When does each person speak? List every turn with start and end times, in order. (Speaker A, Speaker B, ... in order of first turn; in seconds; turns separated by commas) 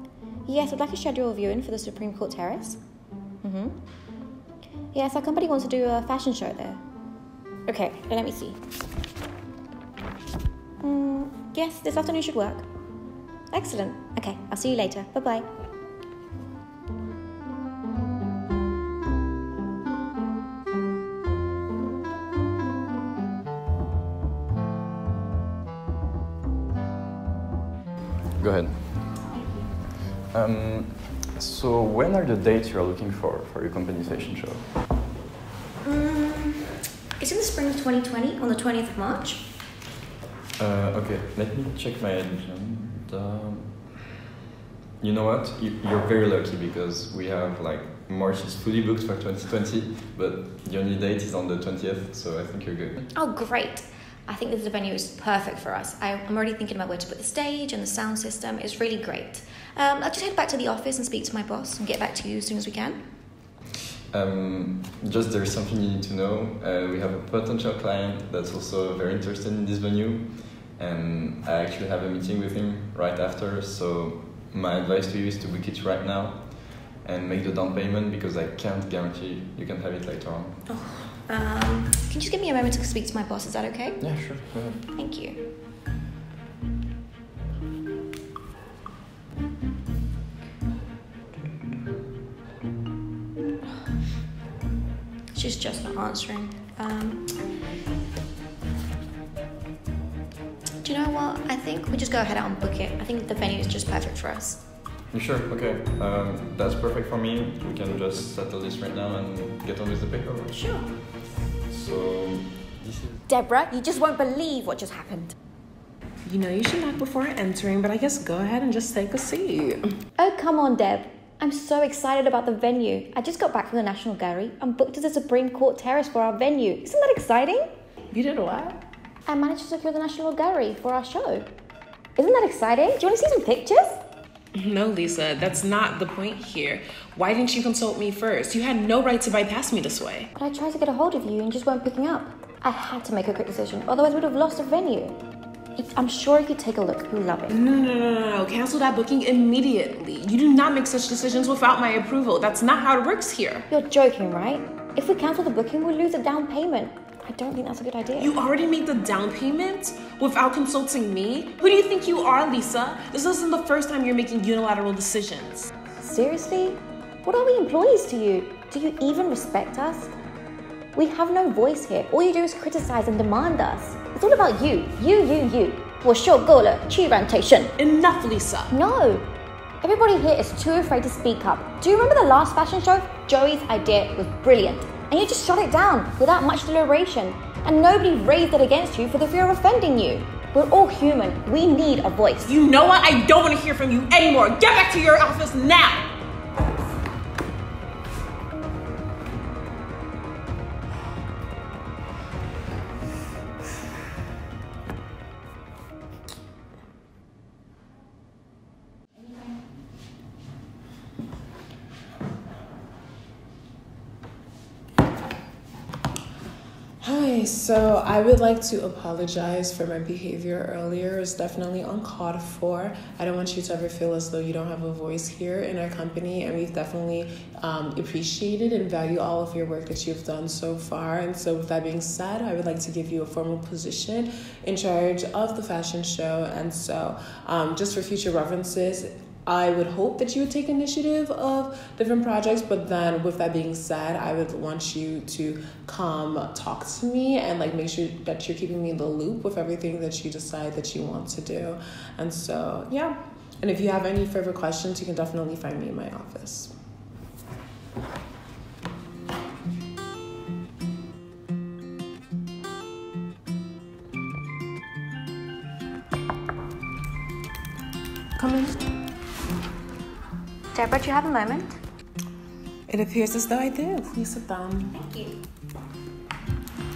Speaker A: 0.4-2.9, Speaker A: 3.4-3.9, Speaker A: 4.9-6.8, Speaker A: 7.6-8.6, Speaker A: 10.8-12.7, Speaker A: 13.5-15.4, Speaker B: 28.4-29.3, Speaker B: 30.3-34.7, Speaker A: 35.8-39.5, Speaker B: 40.6-44.0, Speaker B: 45.0-53.1, Speaker A: 53.1-63.1, Speaker B: 64.1-80.6, Speaker A: 80.7-85.5, Speaker B: 84.0-84.8, Speaker A: 95.3-97.4, Speaker A: 100.8-104.6, Speaker B: 105.1-113.2, Speaker A: 110.5-110.9, Speaker A: 113.3-115.3, Speaker C: 116.2-119.8, Speaker A: 120.2-127.7, Speaker C: 128.1-128.8, Speaker A: 129.2-131.5, Speaker A: 132.2-134.0, Speaker C: 134.5-140.3, Speaker A: 140.3-145.2, Speaker A: 145.8-147.5, Speaker C: 147.5-153.6, Speaker A: 153.7-158.3, Speaker C: 158.2-165.7, Speaker A: 166.0-170.1, Speaker A: 170.9-177.7, Speaker C: 177.8-178.7, Speaker A: 178.7-179.3, Speaker A: 179.8-192.5, Speaker C: 192.4-196.0, Speaker C: 217.0-256.7, Speaker C: 268.4-268.8, Speaker A: 270.7-271.8, Speaker C: 272.9-274.9, Speaker A: 274.9-275.3